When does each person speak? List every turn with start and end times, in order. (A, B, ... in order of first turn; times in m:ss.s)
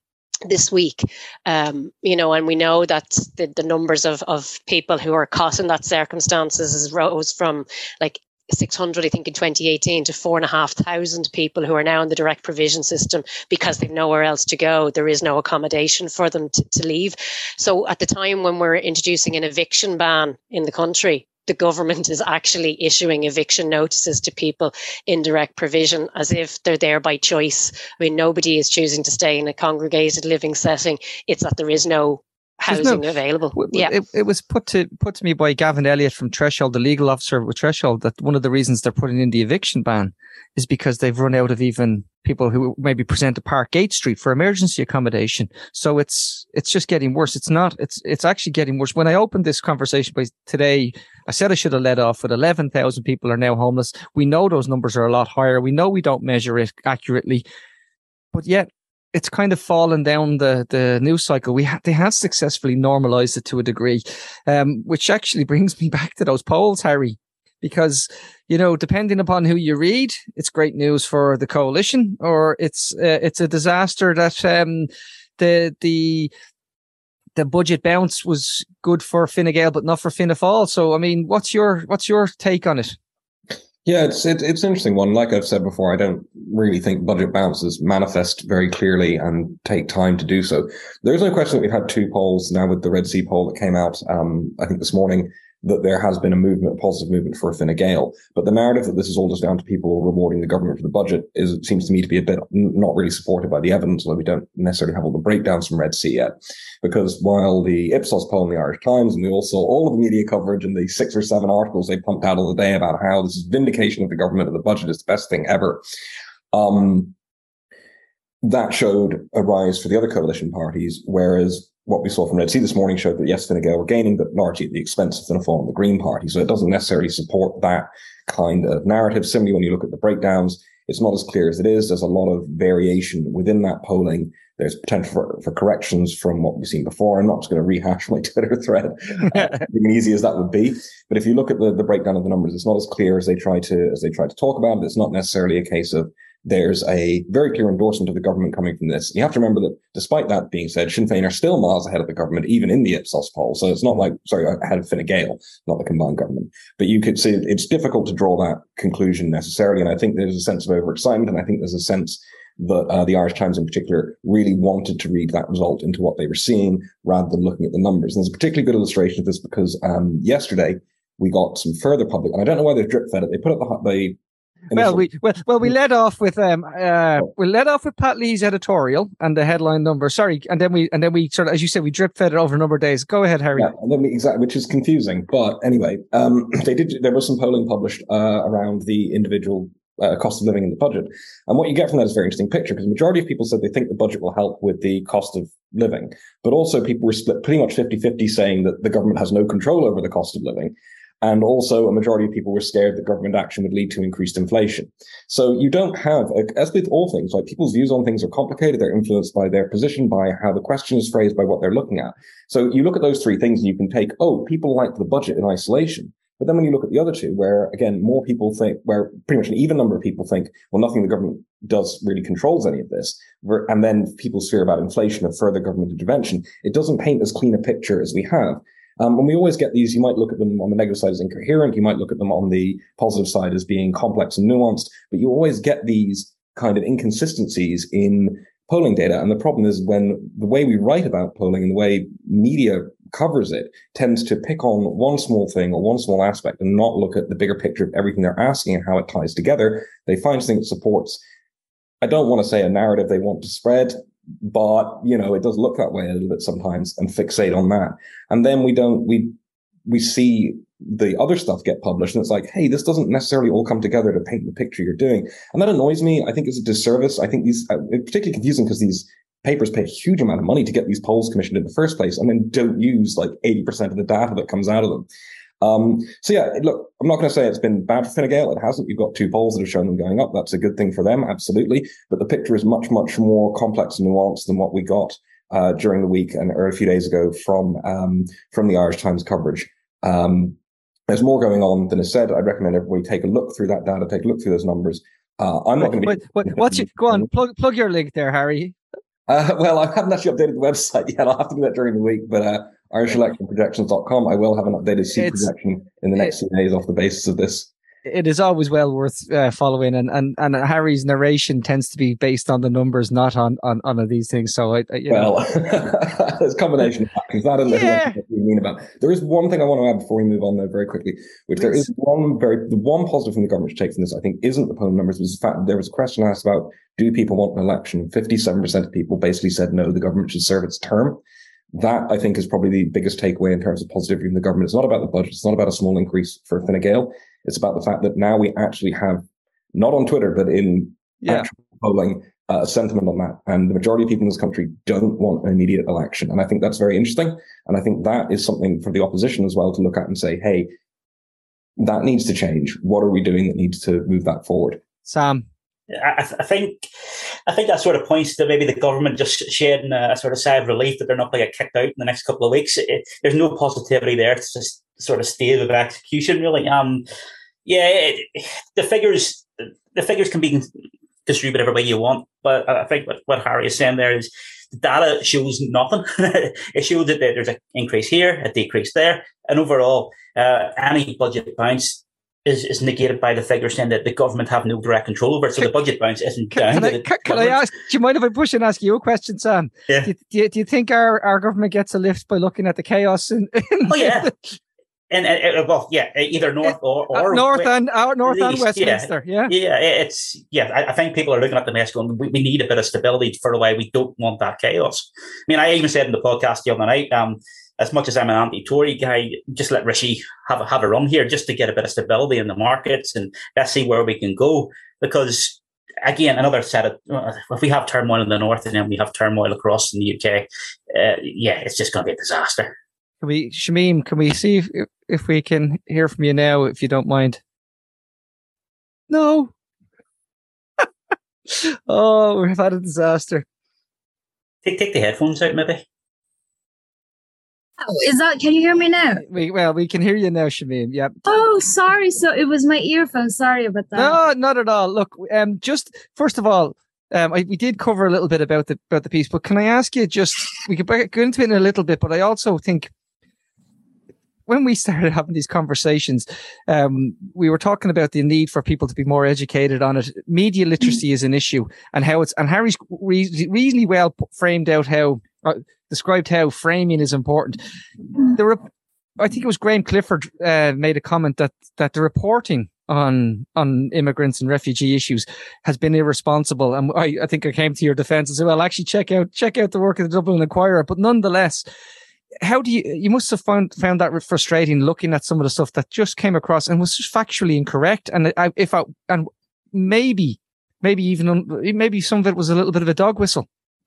0:00.5-0:33.9 A
0:32.7-0:57.4 B
0:58.3-1:16.3 B
1:17.4-1:23.0 B
1:23.8-1:55.8 C
1:56.5-1:57.1 C
1:58.4-2:54.2 C
2:54.7-2:55.1 C
2:54.7-3:03.7 B
3:03.6-4:11.2 C
4:12.0-4:19.3 C
4:19.8-4:35.1 C
4:35.6-4:50.6 C
4:51.1-4:57.3 C
4:55.8-4:58.8 B
4:59.3-5:07.7 C
5:05.2-5:05.5 B
5:08.0-5:15.3 B
5:15.1-5:31.2 C
5:17.7-5:18.2 B
5:21.6-5:21.9 B
5:31.7-5:50.7 C
5:41.2-5:41.5 B
5:51.8-5:54.8 C
5:55.1-5:55.4 B
5:55.9-5:56.8 D
5:57.5-6:07.0 D
6:07.6-6:10.7 D
6:11.2-6:27.6 D
6:26.5-6:34.6 B
6:33.9-6:34.3 D
6:35.1-6:37.7 D
6:36.6-6:39.5 B
6:38.2-7:02.7 D
7:03.2-7:07.4 B
7:09.1-7:09.5 B
7:11.5-7:13.4 B
7:14.6-7:15.8 D
7:17.8-7:19.2 E
7:19.2-7:21.2 B
7:21.2-7:24.2 E
7:23.9-7:32.9 B
7:34.5-7:47.6 B
7:48.3-7:48.6 B
7:49.2-8:01.6 B
8:02.4-8:13.4 B